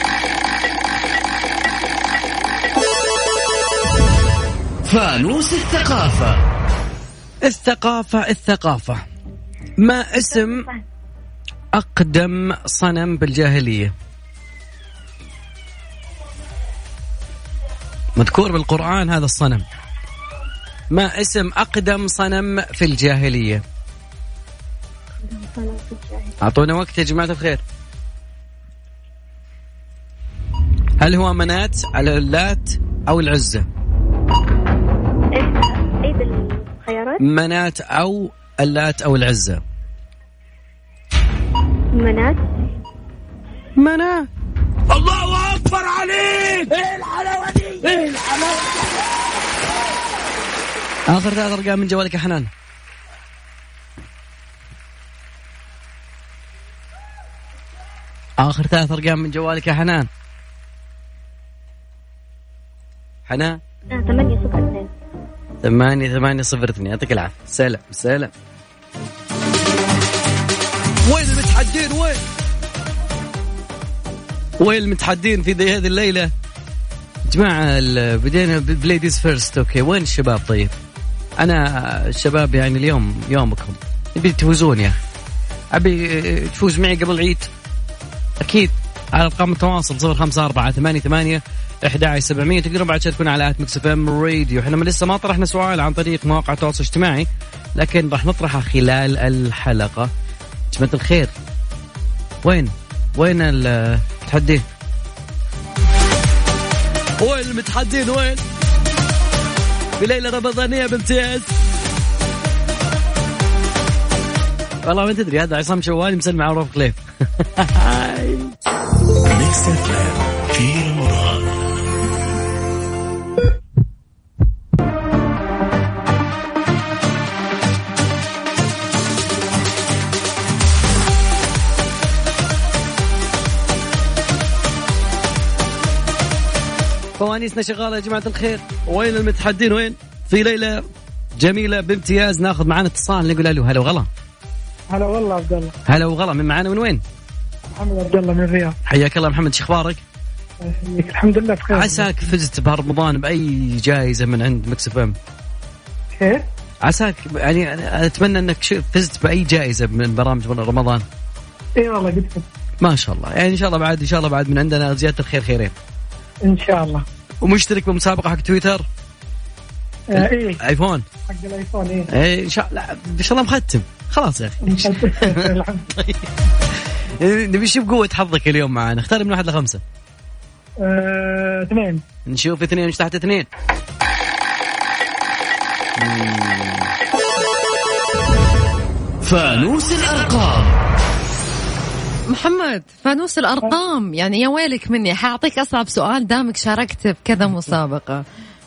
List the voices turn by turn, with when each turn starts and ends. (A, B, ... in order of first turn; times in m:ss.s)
0:04.8-0:06.4 A
0:07.4-0:09.0 B
0:09.8-0:10.7 B
0:11.7-0:13.9 B
0:18.2-0:19.6 B
0:20.9-0:23.6 B
0:25.2-0:26.3 C
0:26.4-0:27.6 B
0:31.0-0:33.7 B
0:35.3-0:37.2 C
0:37.2-0:39.6 B
0:41.9-0:42.4 C
0:43.8-0:44.3 B
0:44.9-0:48.8 B
0:51.1-0:52.5 B
0:58.4-1:00.1 B
1:03.3-1:03.6 B
1:03.9-1:04.9 C
1:05.6-1:08.3 B
1:11.0-1:12.2 B
1:14.6-1:16.3 B
1:17.3-1:20.7 B
1:21.4-1:25.0 B
1:25.7-1:27.5 B
1:28.4-1:40.1 B
1:40.7-1:41.3 B
1:42.4-1:44.6 B
1:47.2-1:48.4 B
1:50.0-1:51.5 B
1:54.8-1:58.5 B
1:59.3-2:01.5 D
2:17.2-2:20.8 B
2:21.4-2:24.1 B
2:24.9-2:25.7 E
2:25.9-2:27.0 B
2:27.7-2:28.7 E
2:28.8-2:30.0 B
2:30.6-2:32.2 E
2:31.7-2:35.2 B
2:36.1-2:36.4 E
2:36.8-2:41.0 B
2:41.8-2:42.4 E
2:42.8-2:45.7 B
2:46.4-2:47.0 E
2:47.4-2:48.8 B
2:50.1-2:50.6 E
2:50.2-2:51.0 B
2:51.3-2:52.1 E
2:52.1-2:56.3 B
2:54.6-2:55.9 E
2:57.2-2:59.8 B
3:00.8-3:02.0 E
3:02.3-3:03.5 B
3:06.0-3:06.9 B
3:09.2-3:10.7 A
3:12.3-3:18.2 F